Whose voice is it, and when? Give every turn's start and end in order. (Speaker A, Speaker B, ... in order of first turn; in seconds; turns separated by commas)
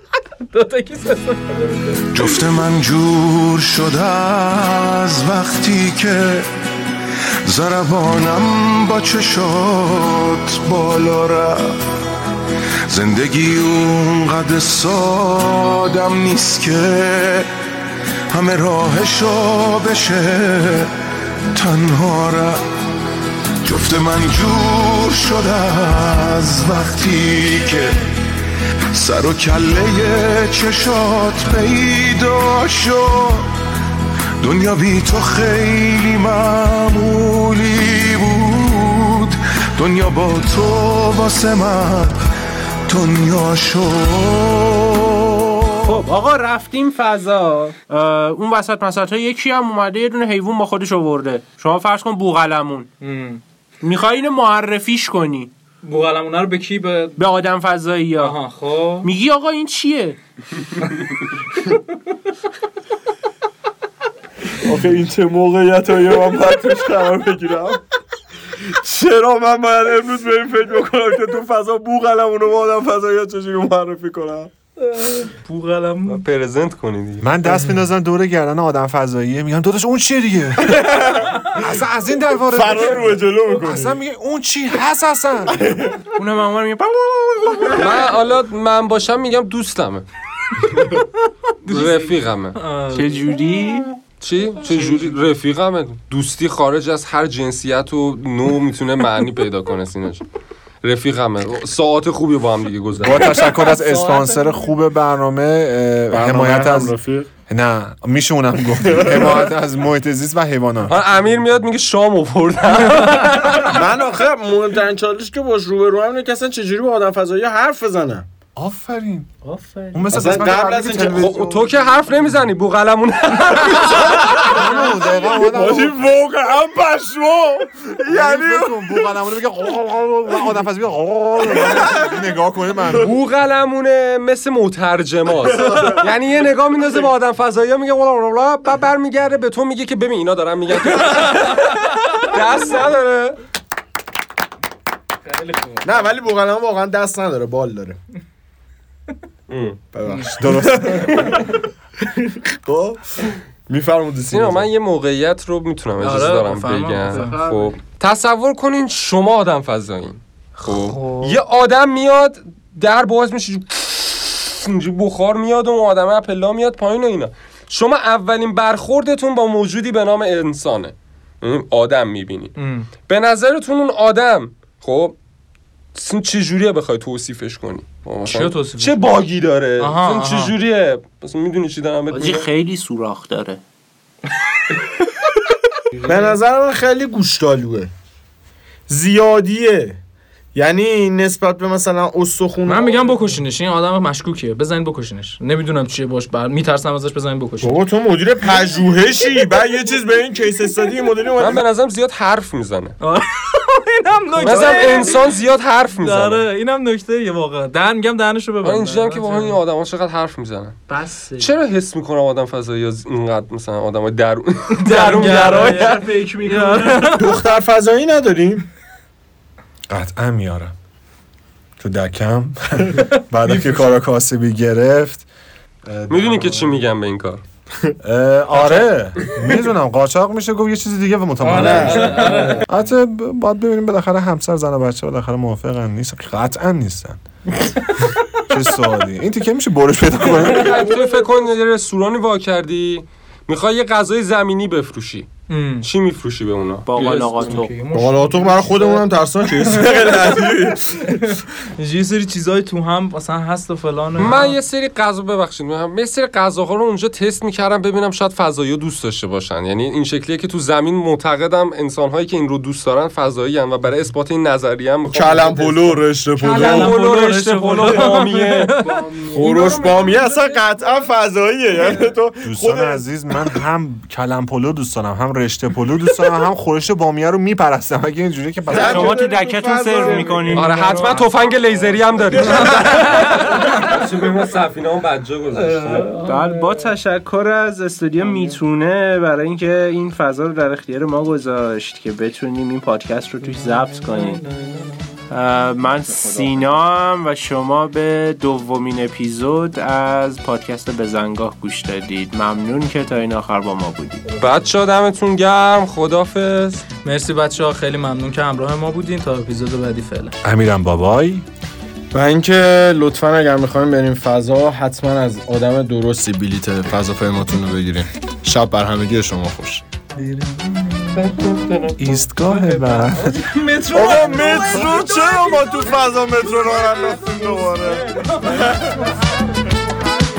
Speaker A: 0.5-2.3, Speaker B: 2.1-6.5, Speaker B: 7.5-11.8, Speaker B: 12.9-17.5, Speaker B: 18.3-20.9, Speaker B: 21.5-22.6, Speaker B: 23.6-28.0, Speaker B: 28.9-33.5, Speaker B: 34.4-42.2, Speaker B: 42.9-46.0, Speaker C: 45.8-52.9, Speaker A: 53.0-53.4, Speaker C: 53.8-55.5, Speaker A: 55.8-57.2, Speaker C: 57.2-58.4, Speaker A: 58.2-59.1, Speaker C: 59.0-60.2, Speaker D: 64.6-67.8, Speaker D: 68.6-74.5, Speaker A: 74.8-76.2, Speaker E: 76.0-77.2, Speaker F: 77.2-85.6, Speaker D: 80.8-81.5, Speaker D: 82.5-84.0, Speaker D: 85.6-86.0, Speaker C: 86.1-87.8, Speaker E: 87.7-90.0, Speaker A: 91.6-93.3, Speaker E: 91.7-92.6, Speaker C: 92.9-93.9, Speaker E: 94.2-100.2, Speaker E: 100.8-103.5, Speaker F: 103.0-106.9, Speaker A: 103.4-104.7, Speaker D: 106.1-107.3, Speaker F: 107.5-111.0, Speaker D: 108.8-109.5, Speaker E: 110.9-113.8, Speaker D: 113.6-118.3, Speaker F: 118.5-119.3, Speaker C: 119.4-120.3, Speaker F: 119.9-121.8, Speaker D: 120.1-121.4, Speaker E: 121.1-124.7, Speaker F: 124.3-126.0, Speaker D: 125.2-129.0, Speaker F: 128.1-133.1, Speaker E: 133.0-143.4, Speaker A: 140.9-142.3, Speaker A: 145.2-145.9, Speaker D: 145.8-148.0, Speaker E: 149.5-149.8, Speaker D: 149.9-151.5, Speaker A: 150.1-150.3, Speaker F: 150.4-151.2, Speaker D: 152.1-154.7, Speaker E: 154.3-172.5, Speaker A: 156.0-157.4, Speaker D: 157.2-157.6, Speaker A: 160.6-161.4, Speaker A: 172.6-172.9, Speaker E: 173.1-175.2, Speaker E: 175.9-182.5, Speaker A: 178.3-179.2, Speaker A: 179.8-180.5, Speaker C: 182.1-183.6, Speaker C: 186.0-186.4, Speaker D: 186.0-187.9, Speaker D: 188.9-190.0, Speaker D: 190.5-193.1, Speaker A: 192.7-197.8, Speaker D: 197.6-201.6, Speaker E: 201.4-203.0, Speaker A: 203.0-205.2, Speaker E: 204.4-206.4, Speaker D: 204.4-205.1, Speaker A: 206.0-209.6, Speaker E: 208.6-210.8, Speaker C: 210.9-211.5, Speaker E: 211.4-216.1, Speaker A: 214.7-217.4, Speaker C: 215.1-217.1, Speaker D: 217.0-218.7, Speaker F: 219.9-220.7, Speaker F: 221.8-225.2, Speaker A: 223.4-223.9, Speaker F: 225.8-226.8, Speaker E: 226.1-227.4, Speaker F: 228.0-237.2, Speaker A: 231.4-232.7, Speaker D: 231.4-232.4, Speaker F: 238.4-240.9, Speaker E: 240.2-245.3, Speaker A: 245.5-245.9, Speaker E: 245.8-246.9, Speaker C: 246.8-247.8, Speaker A: 246.9-254.6, Speaker D: 247.9-251.0, Speaker E: 254.2-268.8, Speaker D: 265.1-266.9, Speaker A: 266.4-270.2, Speaker D: 269.1-273.0, Speaker C: 269.1-270.5, Speaker F: 272.4-279.2, Speaker D: 278.7-281.1, Speaker C: 278.8-281.1, Speaker A: 280.0-281.3, Speaker E: 280.5-286.2, Speaker A: 282.4-283.9, Speaker D: 282.5-282.9, Speaker A: 285.6-286.9, Speaker C: 286.2-294.4, Speaker A: 294.0-294.8, Speaker C: 295.3-304.3, Speaker E: 304.4-306.8, Speaker A: 307.0-310.3, Speaker F: 310.4-311.4, Speaker D: 312.1-319.8, Speaker A: 320.2-321.8, Speaker F: 322.0-323.4, Speaker A: 322.6-329.4, Speaker D: 323.9-329.3, Speaker C: 324.0-324.6